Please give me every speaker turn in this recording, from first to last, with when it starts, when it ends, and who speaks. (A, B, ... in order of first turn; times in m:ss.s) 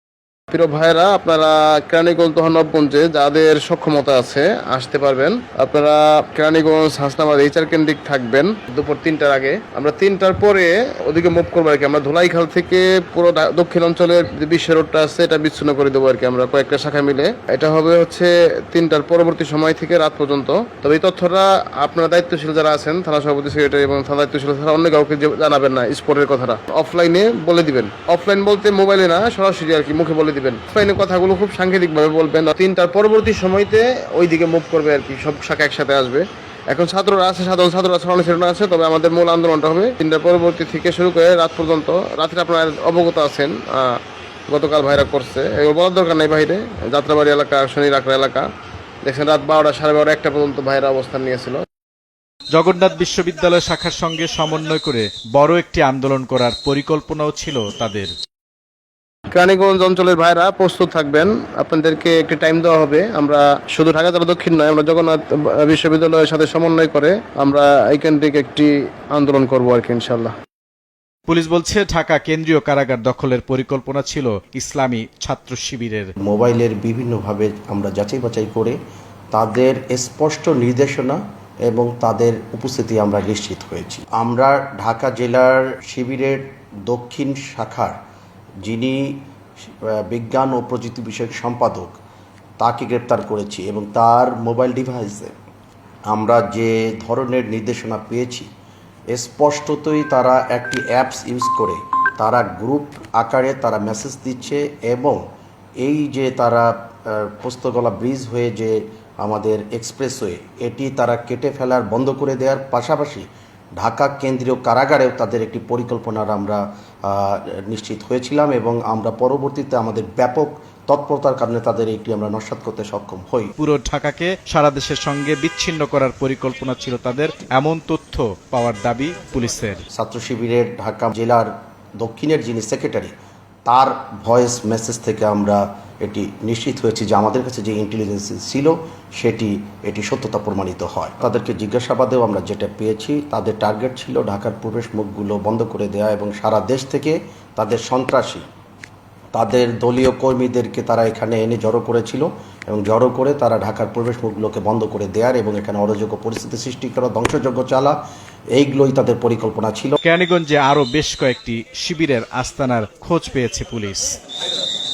0:00.5-0:44.0 A
0:44.5-0:48.5 A
0:49.1-0:51.6 A
0:52.5-0:58.1 B
0:59.3-1:10.3 A
1:11.3-1:16.1 B
1:16.2-1:18.8 C
1:19.3-1:28.0 C
1:28.6-1:29.2 C
1:29.8-1:32.0 C
1:32.6-1:35.4 C
1:36.1-1:38.5 C
1:39.1-1:45.2 C
1:45.8-1:53.3 C
1:53.8-2:03.5 C
2:03.6-2:09.8 B
2:09.9-2:13.1 C
2:13.7-2:28.5 C
2:29.3-2:38.0 C
2:38.6-2:40.0 C
2:40.0-2:44.2 B